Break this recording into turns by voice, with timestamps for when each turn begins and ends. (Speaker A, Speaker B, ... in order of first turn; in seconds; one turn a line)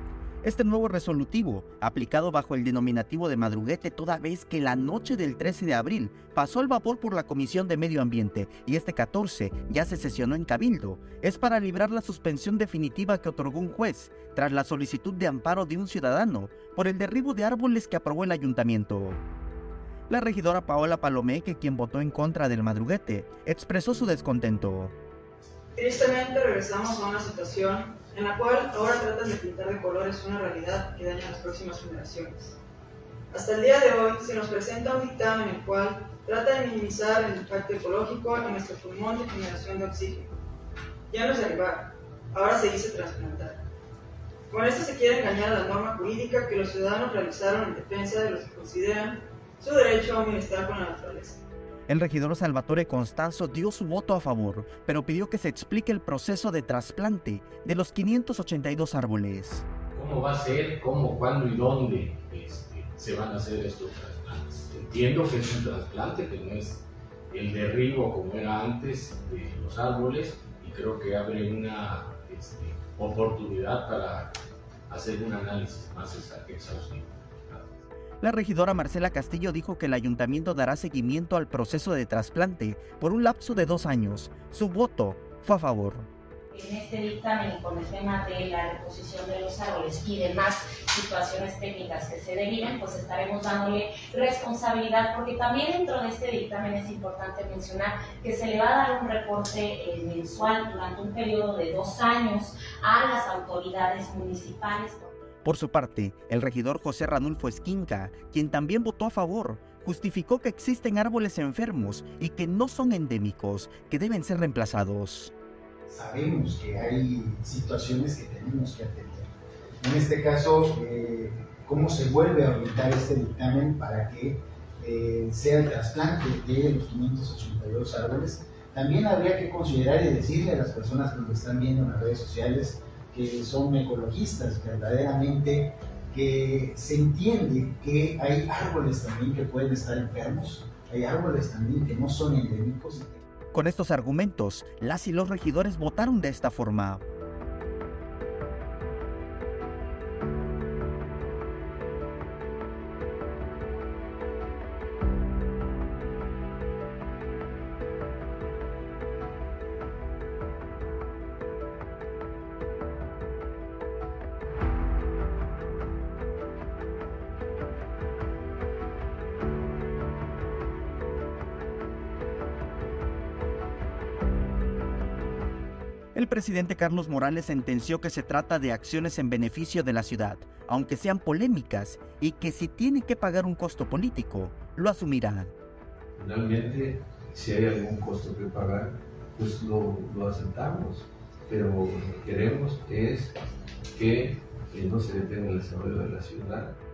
Speaker A: 0.4-19.2
Speaker A: 20.1-24.9
Speaker B: 25.8-32.6
Speaker B: 33.3-40.3
Speaker B: 41.1-43.6
Speaker B: 44.5-51.4
Speaker A: 51.9-59.6
Speaker C: 59.9-74.3
Speaker C: 74.9-77.8
Speaker A: 78.2-86.1
Speaker D: 86.5-105.1
Speaker A: 105.4-115.3
Speaker E: 115.9-119.3
Speaker E: 119.8-143.2
Speaker A: 143.5-147.0
Speaker A: 176.2-185.5
Speaker F: 186.2-193.3
Speaker F: 193.9-196.8